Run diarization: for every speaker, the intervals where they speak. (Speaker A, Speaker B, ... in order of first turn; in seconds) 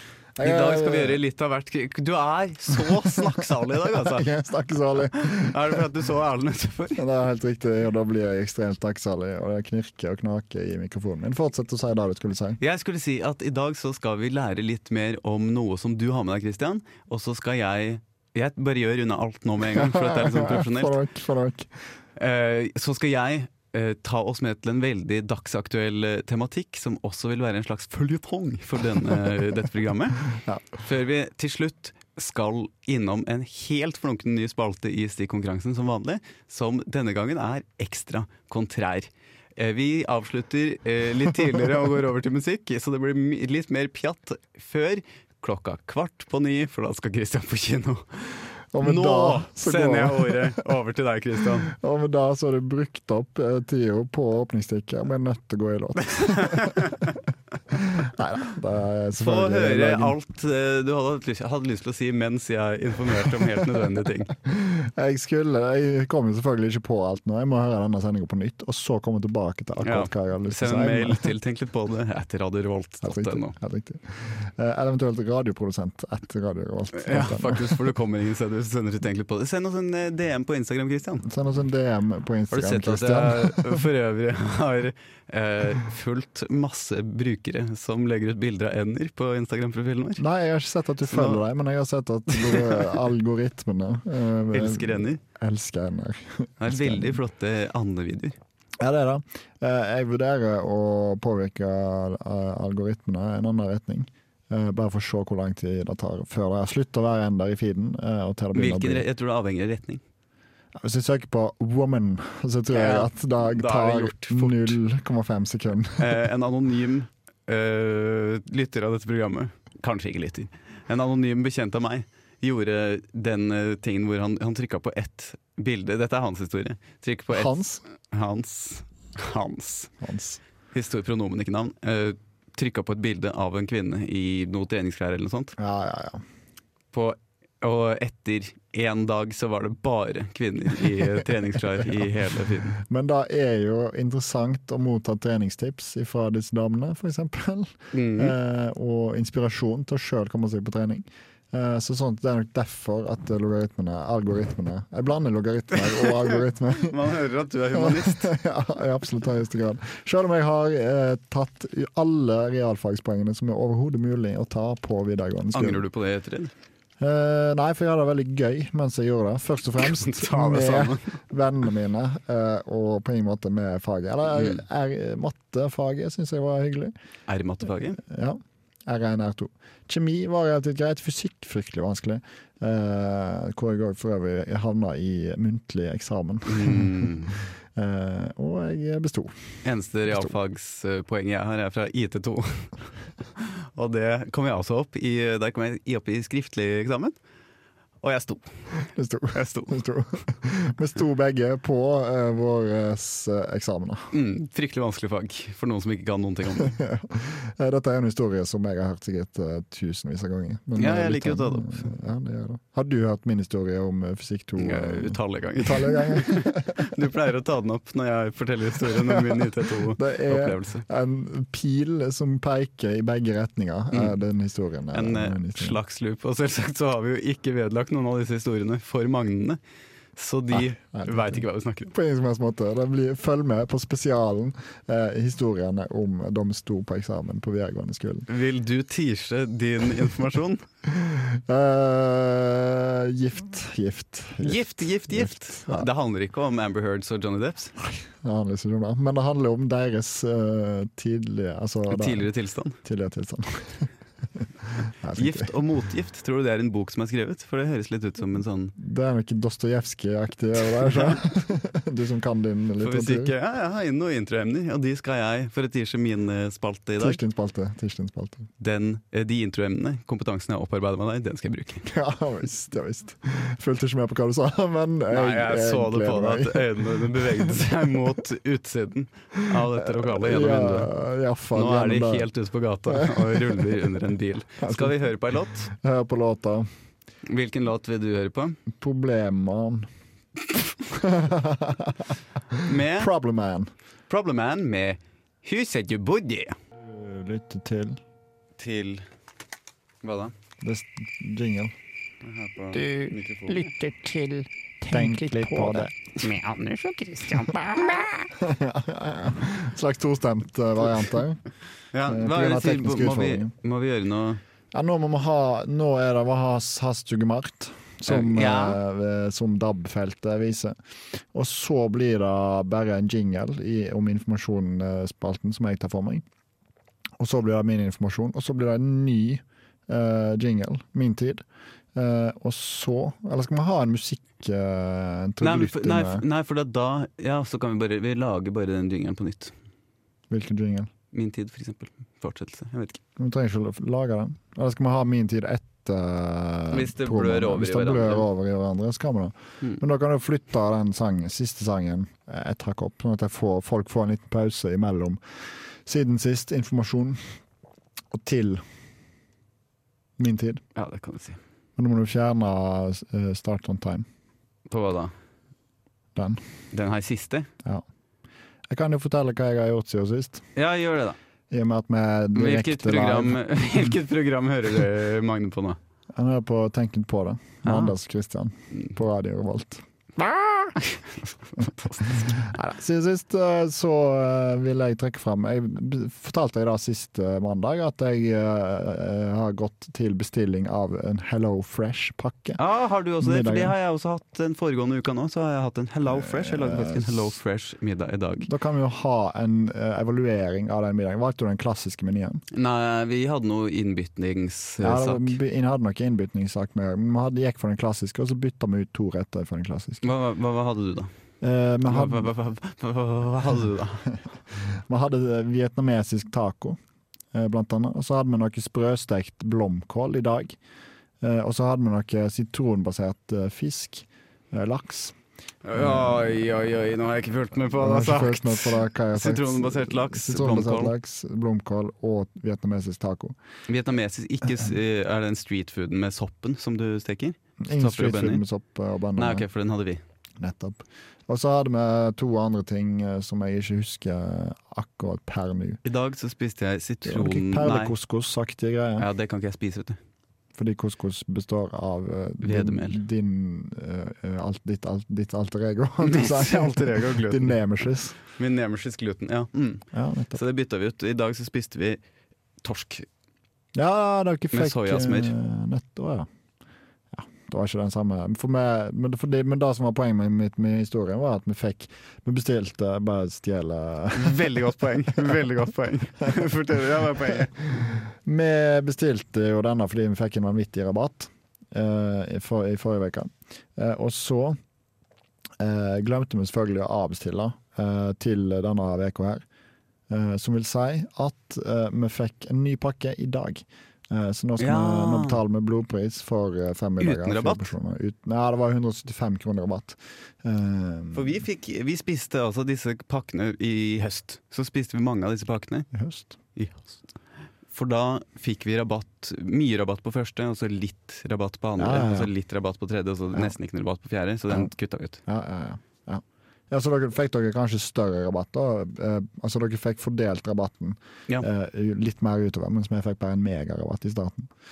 Speaker A: 0.3-1.2, 2.7-5.8, 7.0-12.6, 19.7-21.7, 30.3-30.7, 48.7-50.6, 51.6-57.1, 57.7-60.1, 64.4-71.3, 73.0-77.9, 81.2-83.8, 90.2-97.2, 98.8-109.0, 110.8-116.1, 127.3-127.8, 130.0-130.4, 135.6-136.2, 141.7-142.1, 142.7-157.1, 157.7-165.8, 167.0-176.9, 178.0-187.2, 187.8-189.3, 198.9-204.1, 206.6-216.8, 218.9-225.8, 230.5-238.2, 240.9-245.9, 247.8-252.3, 252.8-253.9, 254.6-255.5, 258.8-263.3, 267.0-268.5, 271.9-277.7, 279.8-282.3, 282.9-283.8, 284.6-285.0, 285.7-286.7, 288.7-289.9, 290.9-293.7, 296.8-298.0, 300.6-301.7, 304.9-305.9, 308.4-311.4, 312.1-313.5, 314.7-320.8, 321.3-326.2, 327.2-331.4, 331.9-336.2, 340.3-340.9, 343.2-355.2, 355.8-357.2, 358.1-358.6, 360.2-360.6, 361.8-364.1, 366.1-366.4, 368.7-370.4, 371.5-373.4, 376.1-380.7, 382.4-392.6, 393.2-393.7, 396.1-397.3, 398.5-402.4, 404.8-410.0, 411.4-412.3, 414.2-416.8, 417.3-420.6, 421.2-425.1, 425.7-426.3, 427.7-433.4, 437.6-439.4, 440.4-445.8, 447.0-449.1, 450.5-458.2, 459.9-460.4, 463.7-466.3, 467.1-475.3, 477.3-484.6, 485.6-489.4, 490.1-501.4, 505.9-506.4, 511.8-512.3, 515.3-524.5
Speaker B: 0.4-4.3, 5.1-7.0, 12.6-21.0, 22.1-30.2, 30.8-51.7, 56.1-57.1, 59.2-64.3, 69.8-73.5, 76.9-81.2, 82.5-90.2, 91.0-91.4, 92.4-92.9, 94.5-95.2, 96.6-98.3, 108.5-110.0, 112.7-114.8, 116.0-129.9, 130.7-135.6, 136.9-142.8, 147.9-148.3, 156.8-158.3, 165.5-166.5, 169.8-171.2, 177.3-178.0, 186.4-187.3, 189.6-192.7, 193.4-197.2, 198.0-198.5, 199.3-199.7, 204.1-206.8, 210.8-211.9, 214.6-220.8, 223.9-224.2, 224.9-229.6, 230.2-231.9, 238.3-240.6, 244.4-247.7, 251.9-252.8, 255.2-258.7, 262.8-267.2, 268.6-271.9, 275.1-280.9, 281.5-285.7, 287.2-288.6, 292.6-293.1, 294.1-296.6, 298.6-299.0, 300.0-300.3, 302.2-303.7, 311.9-314.4, 318.1-318.8, 335.4-339.5, 341.1-343.0, 346.7-348.2, 360.8-361.4, 364.7-365.1, 366.7-367.5, 370.6-371.2, 372.3-375.8, 377.6-377.9, 380.8-382.5, 392.6-398.5, 402.5-405.4, 410.0-411.1, 411.8-414.1, 425.6-430.9, 433.7-438.4, 439.2-440.0, 445.8-447.9, 449.0-450.0, 452.4-453.0, 456.0-457.6, 458.2-462.0, 462.6-463.1, 464.5-465.3, 474.1-477.5, 494.6-495.4, 497.0-497.7, 501.1-505.9, 506.6-507.0, 507.7-515.2
Speaker C: 302.7-308.2